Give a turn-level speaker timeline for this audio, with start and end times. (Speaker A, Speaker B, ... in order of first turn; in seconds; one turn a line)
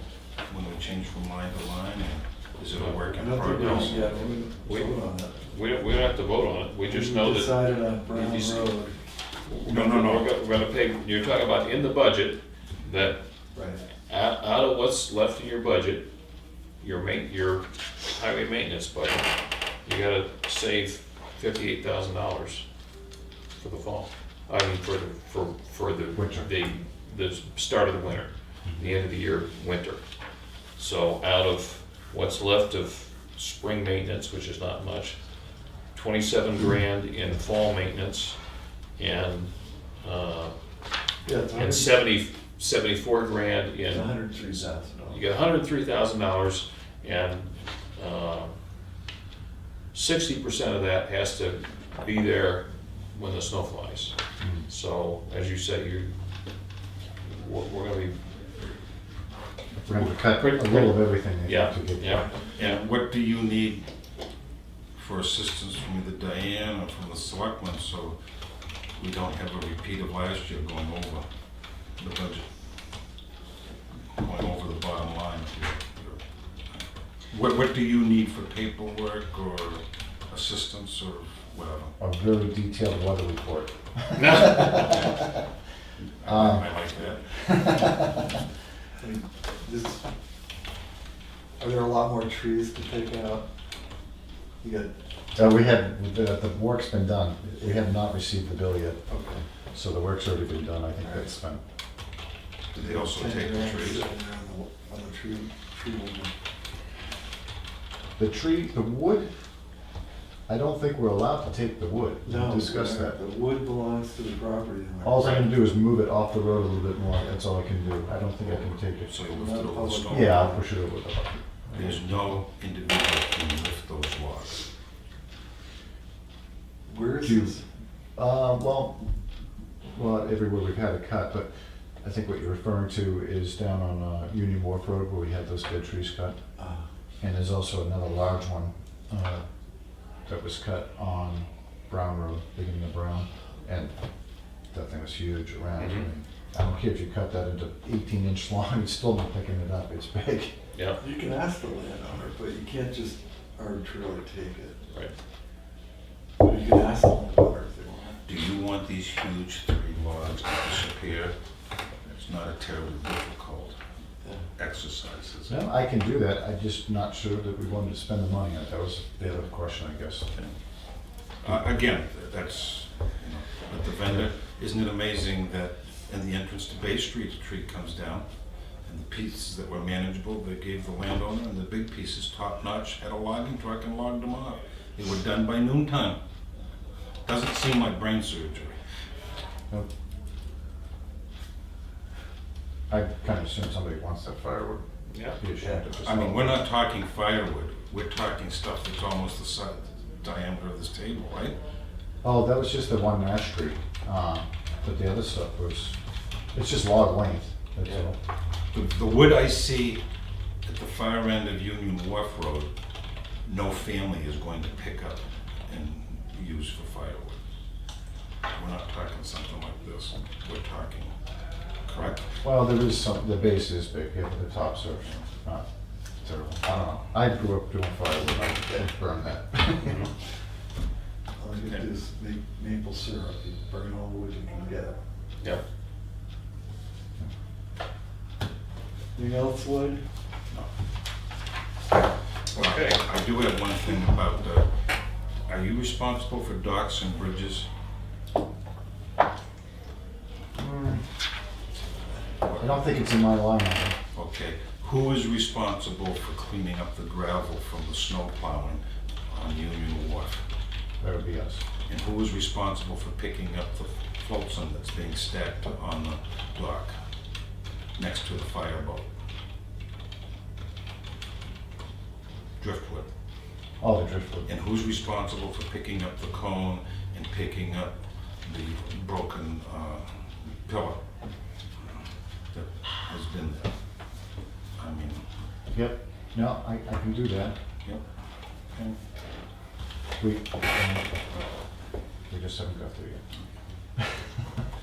Speaker A: 0.5-4.3
Speaker B: 2.7-4.1
Speaker C: 3.2-5.4
Speaker B: 4.6-8.8
Speaker C: 6.8-8.9
Speaker B: 9.4-13.2
Speaker A: 9.6-10.3
Speaker C: 13.5-13.8
Speaker B: 14.0-16.1
Speaker B: 16.8-19.3
Speaker B: 19.8-22.6
Speaker B: 23.6-30.0
Speaker D: 26.1-26.5
Speaker B: 30.8-35.2
Speaker B: 35.9-38.4
Speaker B: 39.0-40.5
Speaker C: 41.2-42.0
Speaker B: 41.5-44.2
Speaker C: 43.9-45.2
Speaker B: 45.1-48.5
Speaker B: 49.9-54.1
Speaker D: 54.4-54.7
Speaker B: 54.7-56.1
Speaker B: 57.2-58.7
Speaker D: 59.8-62.3
Speaker B: 59.9-62.8
Speaker A: 62.5-63.8
Speaker A: 65.0-68.2
Speaker A: 69.0-71.2
Speaker A: 72.0-72.4
Speaker A: 74.2-76.2
Speaker A: 77.3-81.9
Speaker D: 82.0-85.2
Speaker B: 84.2-85.1
Speaker A: 86.2-87.4
Speaker D: 86.2-86.8
Speaker D: 87.3-88.2
Speaker C: 89.0-90.0
Speaker C: 91.6-93.5
Speaker C: 94.6-95.5
Speaker D: 95.3-99.0
Speaker C: 99.1-99.4
Speaker D: 99.7-101.6
Speaker C: 101.0-101.3
Speaker A: 102.7-104.1
Speaker C: 102.7-106.3
Speaker D: 108.2-109.3
Speaker D: 110.5-113.2
Speaker C: 112.2-115.6
Speaker D: 115.0-119.2
Speaker A: 119.0-120.5
Speaker C: 119.3-120.6
Speaker D: 120.1-122.1
Speaker A: 121.7-124.6
Speaker C: 126.9-127.6
Speaker D: 127.2-127.5
Speaker D: 128.2-129.0
Speaker D: 129.9-131.5
Speaker D: 132.0-136.4
Speaker C: 136.6-136.8
Speaker D: 137.2-139.4
Speaker D: 140.2-143.9
Speaker D: 144.7-150.5
Speaker B: 145.8-146.1
Speaker B: 150.7-151.0
Speaker C: 151.0-154.8
Speaker C: 156.4-158.2
Speaker A: 158.2-161.3
Speaker A: 162.1-163.8
Speaker A: 164.6-165.6
Speaker D: 165.5-170.3
Speaker A: 171.4-178.2
Speaker A: 178.8-186.2
Speaker A: 187.2-188.8
Speaker D: 192.9-194.8
Speaker B: 195.1-195.4
Speaker D: 195.3-196.6
Speaker A: 196.0-201.6
Speaker D: 202.2-205.9
Speaker D: 206.5-208.2
Speaker A: 208.7-210.0
Speaker A: 210.6-212.7
Speaker A: 213.4-217.4
Speaker A: 218.5-221.1
Speaker A: 221.8-222.3
Speaker D: 222.4-225.7
Speaker D: 226.2-230.1
Speaker B: 229.8-230.1
Speaker C: 231.4-235.0
Speaker C: 239.1-240.0
Speaker B: 242.5-243.0
Speaker A: 242.5-244.7
Speaker A: 245.5-247.7
Speaker D: 250.6-251.0
Speaker A: 252.4-252.9
Speaker D: 252.6-254.0
Speaker A: 254.1-260.4
Speaker D: 261.0-261.6
Speaker A: 261.9-267.0
Speaker A: 268.0-269.1
Speaker A: 272.6-273.1
Speaker D: 273.8-274.5
Speaker A: 274.4-281.0
Speaker A: 282.5-283.7
Speaker A: 284.8-285.2
Speaker D: 285.7-287.6
Speaker D: 290.2-291.1
Speaker D: 292.3-293.2
Speaker D: 294.0-294.3